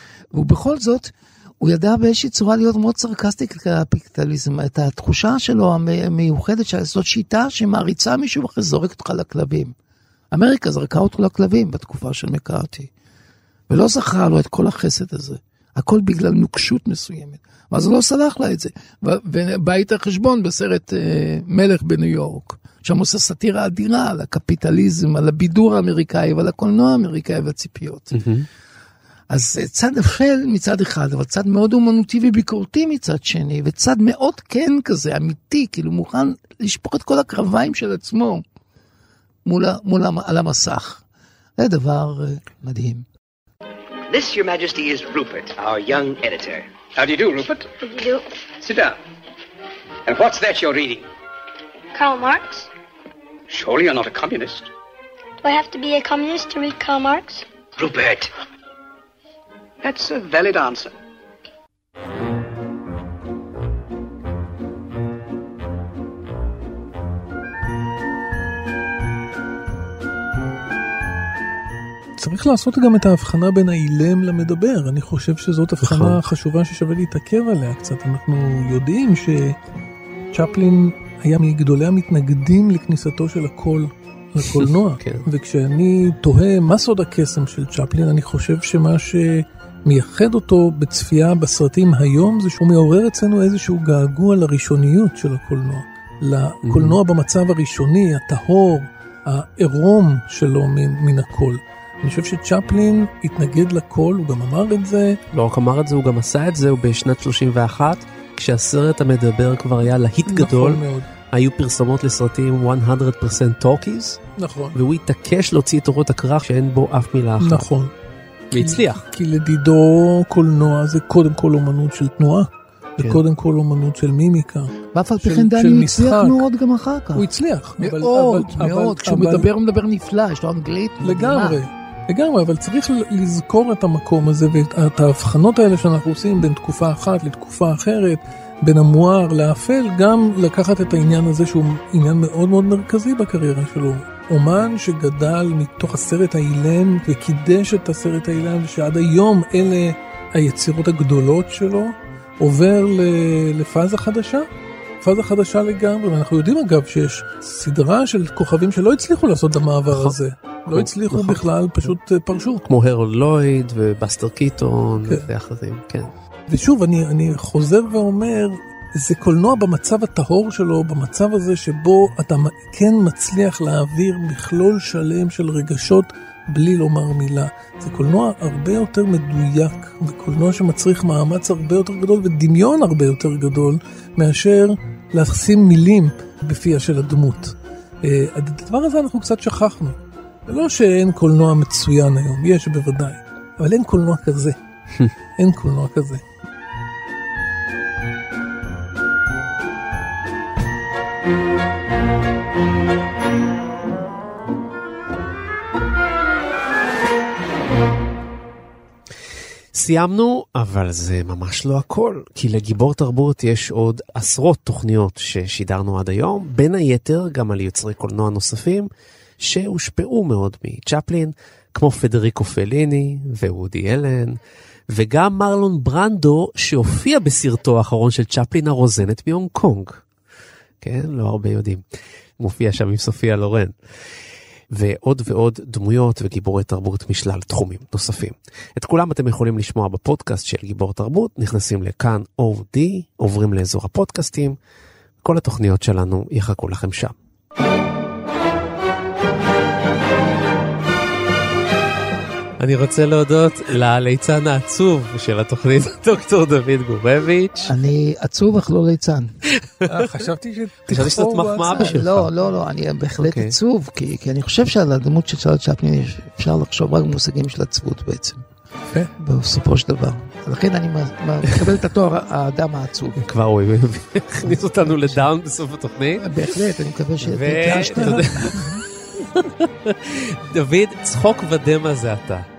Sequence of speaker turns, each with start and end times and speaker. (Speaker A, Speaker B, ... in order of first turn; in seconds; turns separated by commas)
Speaker A: 0.3-9.7, Speaker A: 10.3-12.9, Speaker A: 13.7-28.2, Speaker B: 28.1-28.5, Speaker A: 29.3-38.4, Speaker A: 39.5-41.0, Speaker A: 41.6-43.1, Speaker C: 44.1-47.7, Speaker D: 47.8-48.2, Speaker C: 48.6-49.0, Speaker C: 50.1-51.1, Speaker D: 51.9-52.7, Speaker C: 53.5-54.7, Speaker D: 55.4-57.5, Speaker C: 57.8-58.3, Speaker C: 59.8-61.0, Speaker E: 72.2-79.6, Speaker B: 75.8-76.2, Speaker E: 80.3-105.2, Speaker B: 84.5-85.3, Speaker B: 96.7-97.0, Speaker B: 105.3-114.2, Speaker E: 110.3-111.1, Speaker E: 114.4-114.8, Speaker B: 114.7-117.7, Speaker E: 117.4-117.9, Speaker B: 118.5-119.1, Speaker E: 118.5-124.7, Speaker A: 124.9-127.2, Speaker E: 125.2-126.5, Speaker E: 127.2-129.5, Speaker A: 127.8-131.6, Speaker E: 131.0-154.5, Speaker E: 155.0-162.6, Speaker B: 159.9-162.0, Speaker B: 162.7-166.1, Speaker E: 166.5-194.6, Speaker E: 195.4-196.2, Speaker B: 209.7-230.1, Speaker B: 230.8-231.8, Speaker B: 232.4-233.8, Speaker B: 234.7-244.6, Speaker B: 245.2-247.2, Speaker B: 252.6-257.7, Speaker A: 257.6-259.3, Speaker E: 259.9-262.0, Speaker B: 260.9-262.3, Speaker A: 261.7-268.4, Speaker B: 263.2-263.6, Speaker A: 269.2-273.2, Speaker B: 273.2-276.6, Speaker A: 274.5-275.2, Speaker A: 276.2-278.6, Speaker B: 277.2-282.5, Speaker E: 277.7-278.8